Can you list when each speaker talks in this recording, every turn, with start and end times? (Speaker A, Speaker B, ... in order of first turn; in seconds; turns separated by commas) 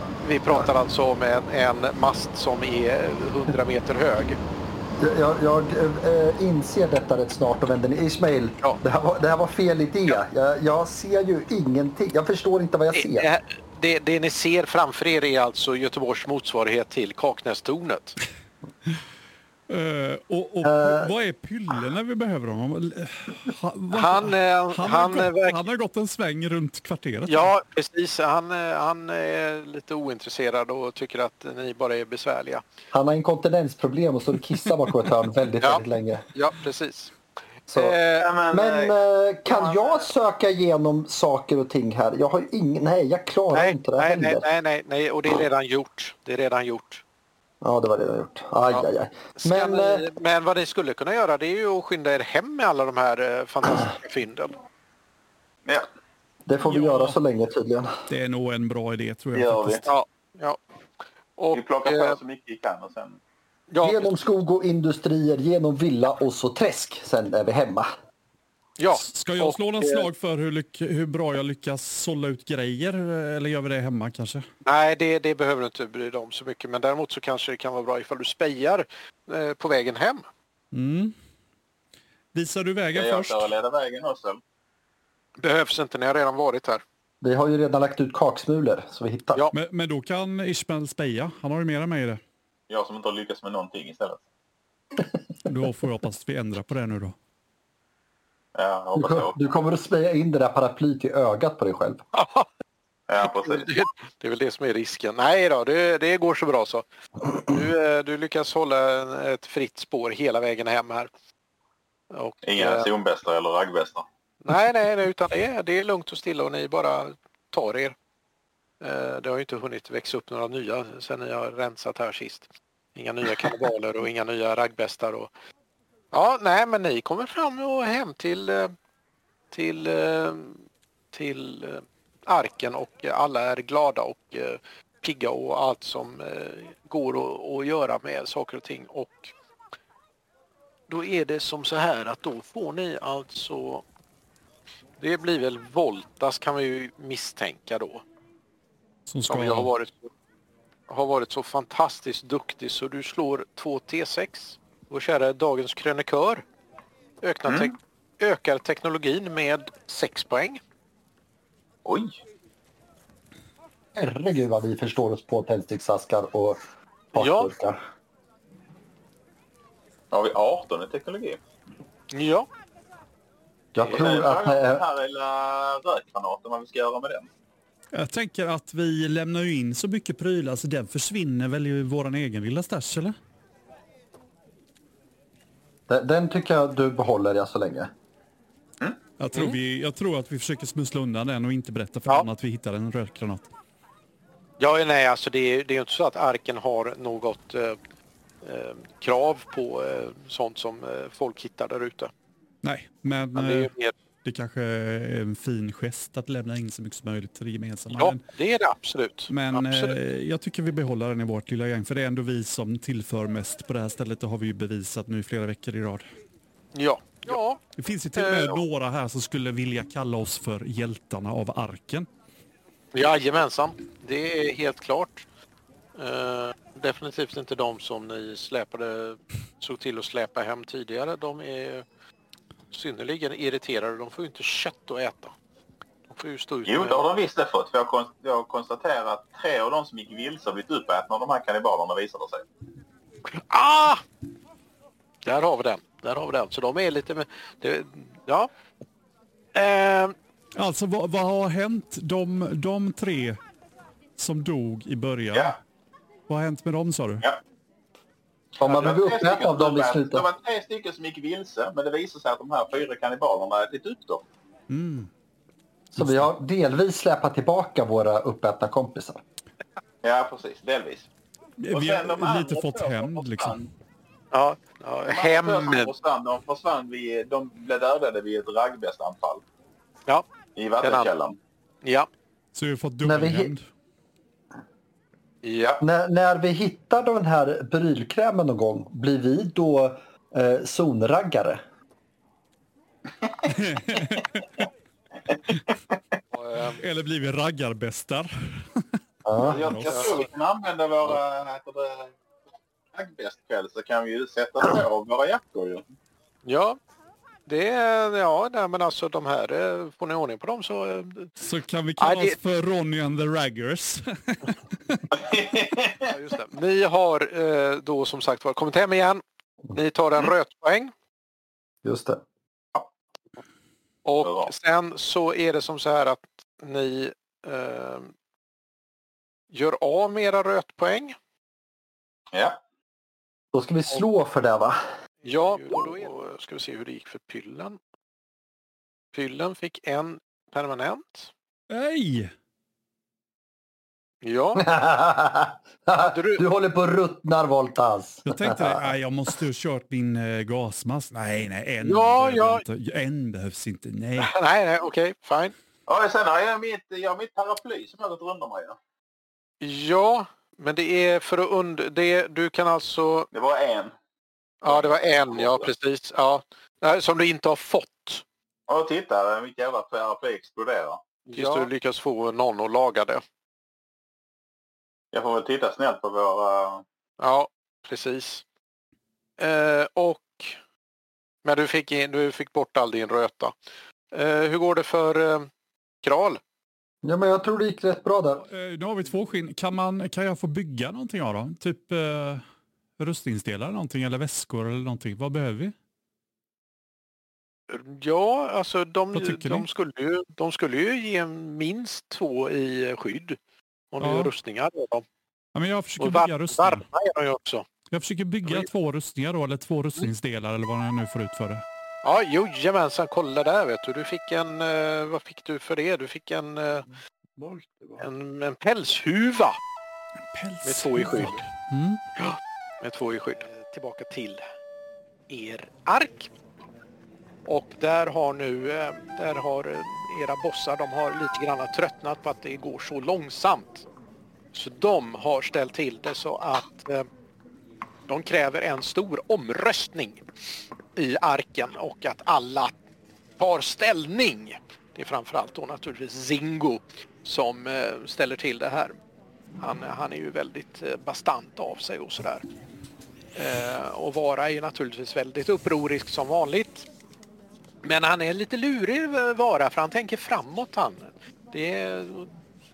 Speaker A: 0.2-4.4, Speaker B: 5.0-13.3, Speaker A: 12.9-18.2, Speaker C: 19.7-27.5, Speaker B: 20.6-21.1, Speaker A: 23.9-25.6, Speaker A: 27.3-32.6, Speaker B: 32.9-36.2, Speaker A: 35.6-37.1, Speaker B: 37.7-38.0, Speaker A: 37.7-38.3, Speaker D: 38.2-39.0, Speaker B: 38.5-44.5, Speaker D: 39.5-40.0, Speaker A: 43.5-47.0, Speaker B: 47.6-50.1, Speaker A: 48.7-54.6, Speaker B: 56.5-57.9, Speaker C: 56.7-57.2, Speaker C: 58.1-59.9, Speaker D: 59.3-59.9, Speaker A: 59.9-60.6, Speaker A: 61.4-62.2, Speaker D: 61.5-63.2, Speaker A: 63.7-64.2, Speaker B: 63.8-67.9, Speaker A: 68.8-70.1, Speaker C: 68.9-74.4, Speaker A: 74.7-80.3, Speaker C: 80.7-81.1, Speaker C: 82.3-83.5, Speaker D: 82.9-84.4, Speaker A: 85.4-86.8, Speaker B: 87.2-89.4, Speaker C: 89.5-92.2, Speaker D: 92.7-94.2, Speaker C: 95.4-97.2, Speaker D: 98.5-99.4, Speaker B: 99.0-102.0, Speaker A: 102.1-102.5, Speaker D: 103.1-103.8, Speaker A: 103.2-111.1, Speaker A: 112.1-112.9, Speaker D: 112.4-114.1, Speaker A: 114.4-118.0, Speaker A: 118.8-125.3, Speaker A: 126.1-128.7, Speaker A: 129.5-139.3, Speaker A: 140.9-143.8, Speaker A: 145.0-148.0, Speaker C: 149.1-149.7, Speaker A: 149.3-150.1, Speaker A: 150.9-156.4, Speaker A: 157.2-160.6, Speaker D: 157.5-157.7, Speaker D: 161.8-162.2, Speaker B: 164.0-166.6, Speaker B: 167.1-167.8, Speaker A: 167.1-167.5, Speaker D: 170.1-171.4, Speaker A: 172.1-172.5, Speaker B: 173.8-174.8, Speaker A: 173.8-174.2, Speaker D: 174.0-177.3, Speaker C: 177.9-183.2, Speaker B: 185.9-187.9, Speaker C: 189.2-193.5, Speaker A: 194.6-197.8, Speaker A: 198.4-202.1, Speaker C: 202.6-203.7, Speaker A: 203.3-203.9, Speaker C: 204.2-208.2, Speaker A: 207.9-210.0, Speaker C: 209.3-216.1, Speaker A: 216.7-217.6, Speaker C: 217.3-222.1, Speaker A: 218.2-218.6, Speaker A: 222.9-225.3, Speaker A: 226.0-231.8, Speaker A: 232.7-235.3, Speaker A: 236.1-237.0, Speaker D: 236.7-242.5, Speaker A: 243.3-244.0, Speaker A: 245.2-248.5, Speaker A: 249.5-250.2, Speaker C: 250.6-253.4, Speaker C: 254.2-255.6, Speaker D: 255.3-255.6, Speaker C: 256.3-257.2, Speaker B: 258.6-260.3, Speaker D: 258.6-264.2, Speaker C: 264.7-265.1, Speaker B: 265.9-269.2, Speaker C: 266.0-266.3, Speaker D: 270.0-271.1, Speaker C: 271.6-273.7, Speaker D: 271.7-273.6, Speaker A: 274.3-275.9, Speaker D: 275.1-279.4, Speaker D: 280.6-281.4, Speaker A: 280.8-281.1, Speaker A: 281.8-282.1, Speaker C: 282.5-283.6, Speaker B: 283.0-283.5, Speaker A: 285.4-285.8, Speaker B: 285.8-291.6, Speaker D: 293.2-294.0, Speaker C: 293.5-294.5, Speaker A: 296.3-296.8, Speaker C: 296.8-298.9, Speaker B: 299.2-299.6, Speaker D: 299.4-302.1, Speaker C: 299.4-300.2, Speaker A: 299.9-300.2, Speaker D: 302.9-305.8, Speaker A: 306.4-306.8, Speaker A: 307.5-311.3, Speaker C: 311.4-315.1, Speaker A: 312.0-312.4, Speaker D: 315.1-316.1, Speaker A: 316.1-320.9, Speaker B: 321.8-322.2, Speaker A: 324.1-328.1, Speaker D: 324.2-324.5, Speaker A: 329.5-331.2, Speaker D: 332.3-332.6, Speaker B: 333.5-334.8, Speaker A: 335.2-337.8, Speaker A: 339.1-341.3, Speaker C: 341.7-342.3, Speaker A: 344.2-344.6, Speaker B: 344.6-348.8, Speaker A: 346.0-346.4, Speaker C: 348.2-354.3, Speaker A: 351.8-352.6, Speaker A: 354.2-355.5, Speaker D: 355.9-358.8, Speaker A: 359.6-363.3, Speaker D: 363.3-363.9, Speaker A: 364.6-368.2, Speaker D: 364.6-365.7, Speaker D: 368.7-371.7, Speaker A: 371.3-373.2, Speaker D: 375.1-376.8, Speaker A: 377.2-378.4, Speaker A: 379.4-380.6, Speaker A: 381.4-383.5, Speaker A: 384.1-385.5, Speaker A: 386.0-386.4, Speaker B: 387.0-388.4, Speaker C: 388.5-392.4, Speaker C: 393.0-395.7, Speaker A: 397.7-403.4, Speaker C: 399.1-399.7, Speaker A: 403.9-405.1, Speaker C: 404.0-404.3, Speaker C: 405.6-406.9, Speaker A: 406.0-407.7, Speaker C: 407.9-411.6, Speaker A: 412.0-416.9, Speaker B: 417.4-418.0, Speaker A: 418.0-419.6, Speaker C: 420.3-422.0, Speaker A: 420.6-421.4, Speaker A: 422.2-424.4, Speaker A: 425.3-426.3, Speaker A: 427.5-433.9, Speaker A: 434.5-437.1, Speaker A: 438.1-440.2, Speaker A: 441.0-442.7, Speaker A: 443.4-449.0, Speaker A: 449.6-452.4, Speaker A: 453.4-456.9, Speaker A: 457.8-462.3